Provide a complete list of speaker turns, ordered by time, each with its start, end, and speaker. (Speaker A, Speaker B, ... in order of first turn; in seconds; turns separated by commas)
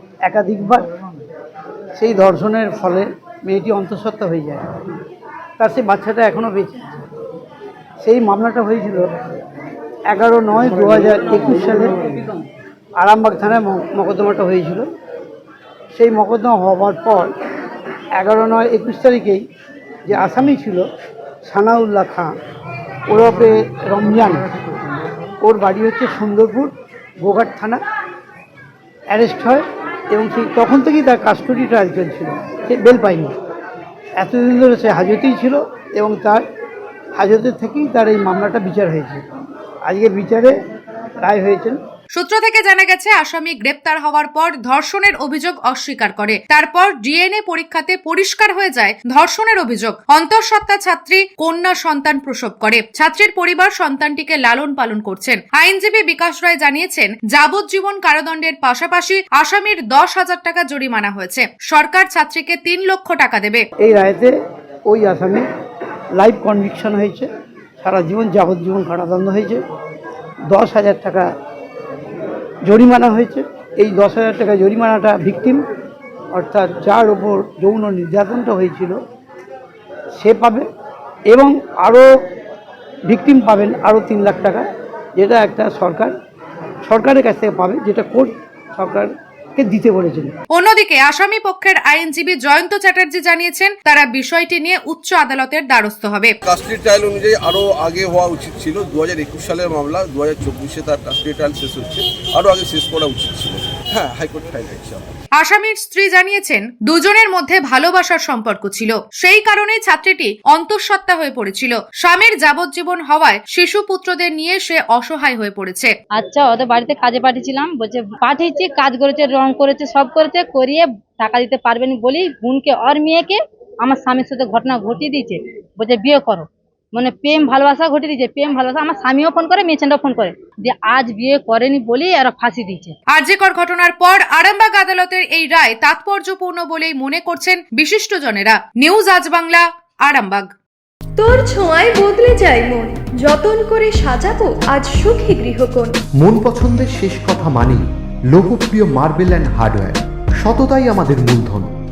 Speaker A: 0.2-0.8, Speaker A: 2.0-4.7, Speaker A: 5.6-7.0, Speaker A: 8.0-9.1, Speaker A: 10.1-11.9, Speaker A: 13.0-14.9, Speaker A: 15.9-17.3, Speaker A: 18.2-19.4, Speaker A: 20.1-20.8, Speaker A: 21.4-22.3, Speaker A: 23.1-24.4, Speaker A: 25.4-27.8, Speaker A: 29.1-33.3, Speaker A: 34.2-36.4, Speaker A: 37.1-39.2, Speaker A: 39.9-40.6, Speaker A: 41.2-41.8, Speaker B: 42.1-63.6, Speaker A: 63.8-64.3, Speaker A: 64.9-65.5, Speaker A: 66.2-67.3, Speaker A: 67.8-69.6, Speaker A: 70.5-71.3, Speaker A: 72.7-75.6, Speaker A: 76.3-79.0, Speaker A: 80.2-80.7, Speaker A: 81.3-82.1, Speaker A: 83.1-84.7, Speaker A: 85.2-86.1, Speaker A: 86.8-90.3, Speaker B: 90.5-96.3, Speaker C: 96.4-105.1, Speaker B: 105.4-115.9, Speaker D: 116.2-132.9, Speaker B: 133.1-140.5, Speaker E: 141.2-145.9, Speaker F: 146.2-151.7